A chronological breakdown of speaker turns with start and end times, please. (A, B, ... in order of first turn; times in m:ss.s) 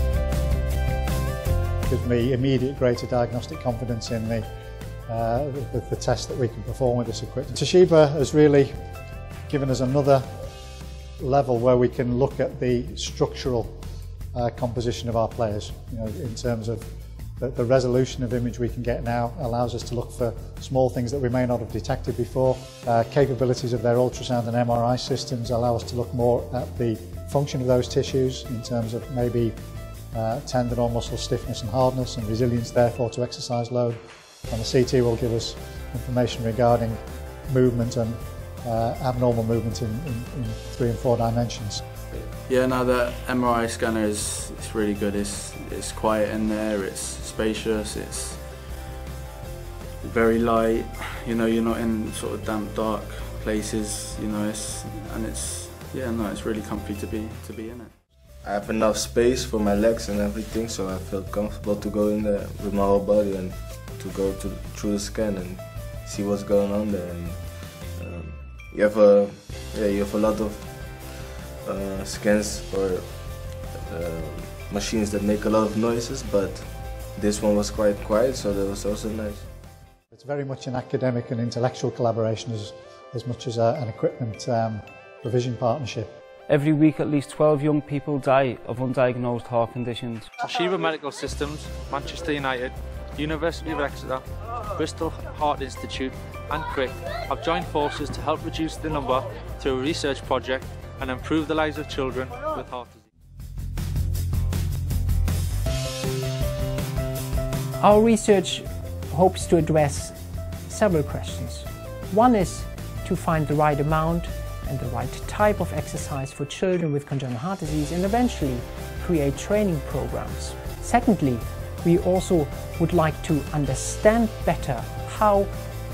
0:01.9-0:04.5 A
0:05.1-0:08.8 A
0:09.5-0:10.4 A
0:11.2-0:13.8 A
0:14.3-0:29.5 A
0:30.1-0:41.8 A
0:42.2-0:48.7 B
0:50.0-0:57.9 B
0:58.4-1:19.5 C
1:20.1-1:26.1 A
1:26.5-1:30.3 D
1:30.4-1:43.1 E
1:47.8-2:05.5 F